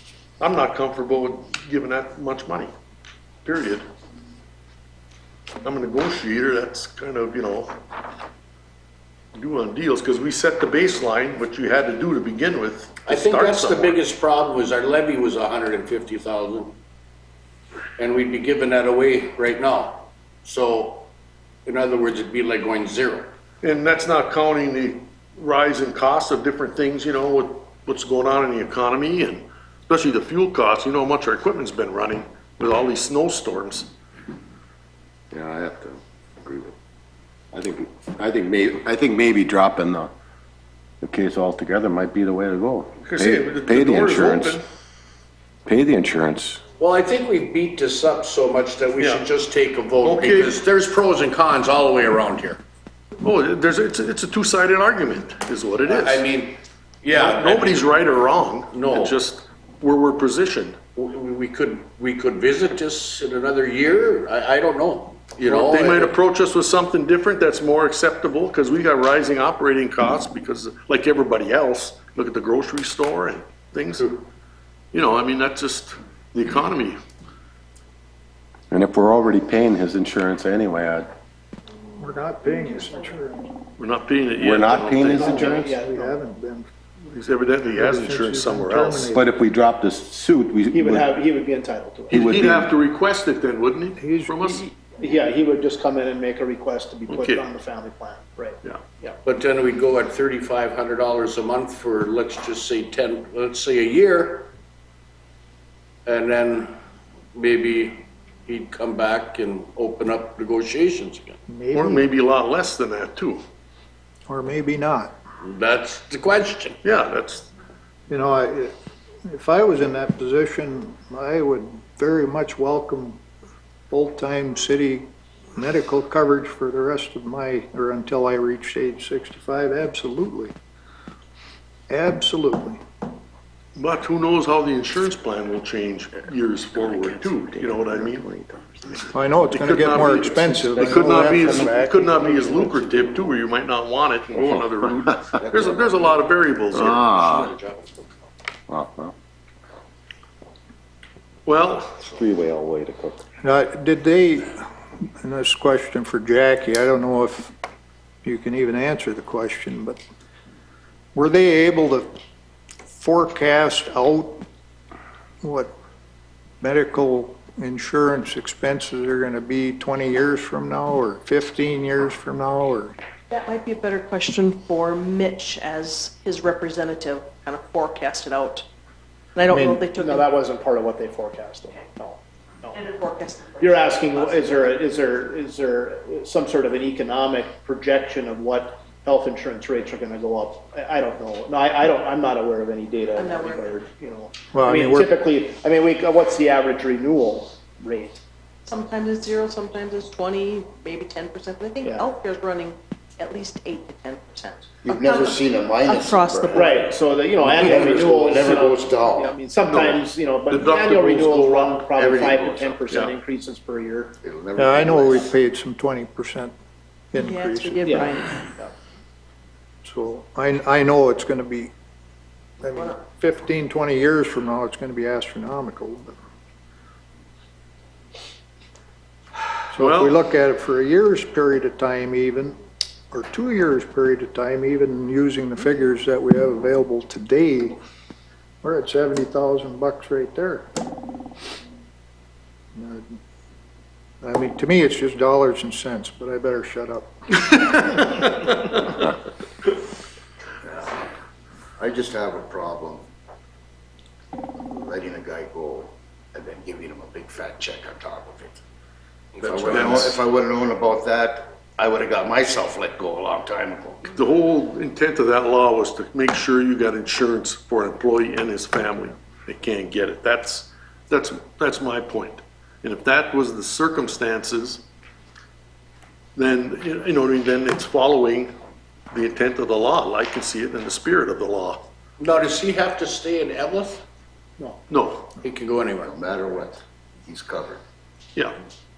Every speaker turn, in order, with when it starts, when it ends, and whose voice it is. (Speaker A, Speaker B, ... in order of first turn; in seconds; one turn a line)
Speaker A: 0.4-2.7
Speaker A: 3.4-3.8
Speaker A: 5.6-7.7
Speaker A: 9.3-14.0
Speaker B: 13.1-16.8
Speaker B: 18.0-21.1
Speaker B: 21.6-23.3
Speaker A: 23.6-33.9
Speaker C: 35.3-36.7
Speaker C: 37.5-40.1
Speaker C: 41.0-44.6
Speaker A: 43.0-44.6
Speaker C: 45.6-46.6
Speaker B: 46.8-52.6
Speaker A: 49.0-49.3
Speaker A: 50.0-50.6
Speaker A: 53.2-56.3
Speaker B: 55.9-58.0
Speaker A: 57.1-60.8
Speaker B: 58.7-59.1
Speaker B: 60.9-66.2
Speaker A: 65.4-74.1
Speaker A: 74.9-77.0
Speaker C: 78.7-81.1
Speaker D: 82.0-83.5
Speaker A: 83.8-85.4
Speaker C: 84.4-85.6
Speaker E: 85.1-86.1
Speaker D: 85.2-86.7
Speaker A: 87.1-89.1
Speaker D: 87.7-89.3
Speaker C: 89.1-91.0
Speaker E: 90.7-92.2
Speaker A: 92.1-94.6
Speaker C: 92.1-92.7
Speaker D: 94.0-94.7
Speaker E: 94.7-99.2
Speaker A: 97.1-97.4
Speaker B: 99.2-104.5
Speaker B: 106.0-106.7
Speaker B: 107.3-111.4
Speaker D: 111.5-112.1
Speaker A: 111.7-113.4
Speaker D: 114.3-115.2
Speaker B: 115.4-116.8
Speaker A: 116.8-117.5
Speaker D: 118.1-118.7
Speaker D: 119.2-123.2
Speaker D: 123.9-130.5
Speaker D: 131.9-132.8
Speaker A: 133.8-138.3
Speaker C: 136.7-139.1
Speaker D: 139.1-142.7
Speaker A: 139.5-147.2
Speaker F: 145.4-147.4
Speaker C: 146.8-147.2
Speaker B: 147.0-148.1
Speaker C: 148.7-149.1
Speaker A: 151.4-152.0
Speaker C: 152.1-153.2
Speaker D: 153.4-157.5
Speaker D: 158.2-160.0
Speaker D: 161.1-162.1
Speaker D: 162.9-164.4
Speaker D: 165.4-165.7
Speaker D: 166.6-172.9
Speaker G: 173.3-178.7
Speaker G: 179.3-180.3
Speaker D: 179.5-179.8
Speaker E: 179.9-182.8
Speaker G: 182.7-184.8
Speaker E: 183.6-198.2
Speaker G: 193.1-193.8
Speaker D: 194.5-195.1
Speaker G: 198.7-206.8
Speaker F: 204.8-206.7
Speaker E: 206.5-214.2
Speaker F: 207.5-209.3
Speaker A: 209.7-210.0
Speaker A: 210.5-211.9
Speaker F: 212.0-212.8
Speaker A: 212.9-213.2
Speaker F: 214.2-215.3
Speaker D: 214.6-216.5
Speaker D: 217.1-218.2
Speaker G: 217.2-218.4
Speaker E: 217.8-218.7
Speaker D: 219.8-221.7
Speaker D: 222.6-226.1
Speaker D: 229.7-232.6
Speaker A: 229.8-230.2
Speaker D: 233.1-237.8
Speaker D: 238.6-240.7
Speaker D: 242.7-243.2
Speaker D: 244.2-248.3
Speaker F: 251.8-253.0
Speaker F: 254.6-258.6
Speaker B: 259.4-260.0
Speaker F: 259.4-264.1
Speaker A: 259.7-260.2
Speaker A: 264.1-274.8
Speaker A: 276.4-278.5
Speaker A: 279.1-281.9
Speaker B: 282.2-284.0
Speaker A: 284.9-285.3
Speaker B: 285.4-286.1
Speaker F: 285.9-287.8